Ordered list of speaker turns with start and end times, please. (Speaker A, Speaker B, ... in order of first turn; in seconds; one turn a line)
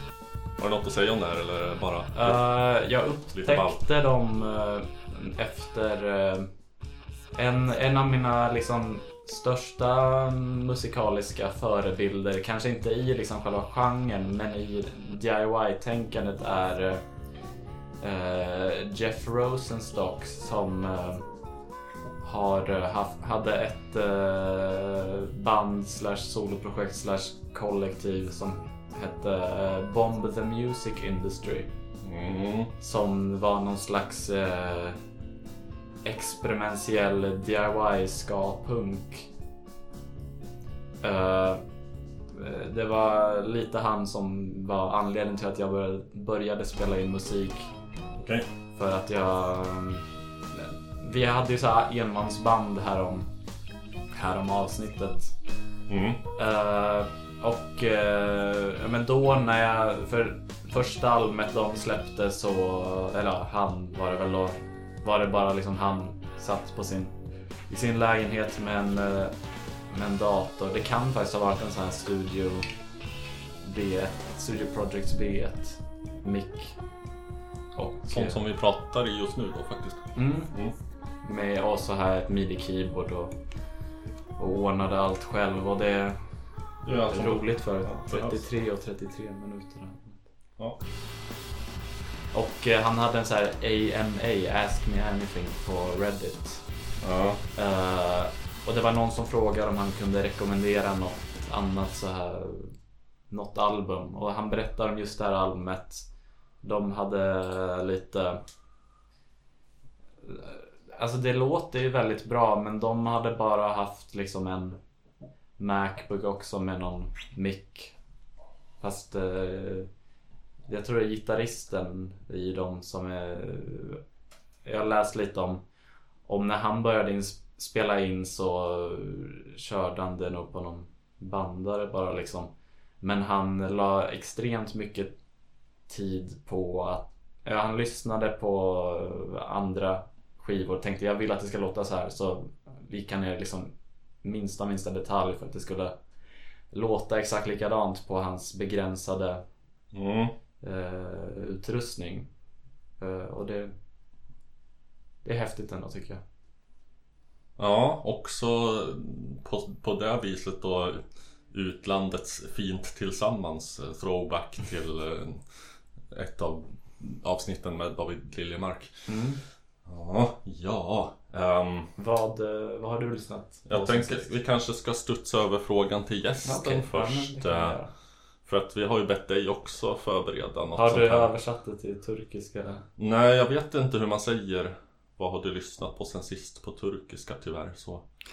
Speaker A: 0.6-2.5
Speaker B: 2.1-6.5
Speaker A: 3.3-3.8
Speaker B: 7.3-17.1
Speaker B: 18.0-21.3
Speaker B: 22.2-31.7
Speaker A: 32.0-32.7
Speaker B: 32.8-35.0
Speaker B: 36.0-39.3
Speaker B: 41.0-41.6
Speaker B: 42.3-47.7
Speaker A: 48.2-48.5
Speaker B: 48.8-53.3
Speaker B: 54.1-55.4
Speaker A: 55.9-56.2
Speaker B: 56.4-72.7
Speaker B: 73.6-76.8
Speaker B: 77.8-78.4
Speaker A: 78.1-80.8
Speaker B: 80.2-80.5
Speaker B: 81.2-83.4
Speaker B: 84.4-86.3
Speaker A: 86.8-88.4
Speaker B: 87.1-90.3
Speaker B: 92.3-96.7
Speaker A: 97.0-97.4
Speaker B: 97.5-102.8
Speaker B: 103.3-106.1
Speaker B: 106.6-108.4
Speaker B: 110.2-114.8
Speaker B: 115.6-118.0
Speaker B: 118.8-119.9
Speaker B: 120.7-124.0
Speaker B: 124.6-125.6
Speaker B: 126.2-135.2
Speaker B: 135.9-146.0
Speaker B: 146.7-149.5
Speaker A: 149.9-150.4
Speaker B: 150.6-152.3
Speaker B: 153.0-153.8
Speaker B: 155.2-156.2
Speaker A: 157.6-169.2
Speaker B: 169.1-169.4
Speaker A: 169.8-171.9
Speaker B: 172.0-174.3
Speaker A: 173.7-177.8
Speaker B: 176.4-177.9
Speaker A: 178.4-181.3
Speaker B: 180.8-182.8
Speaker A: 183.0-188.1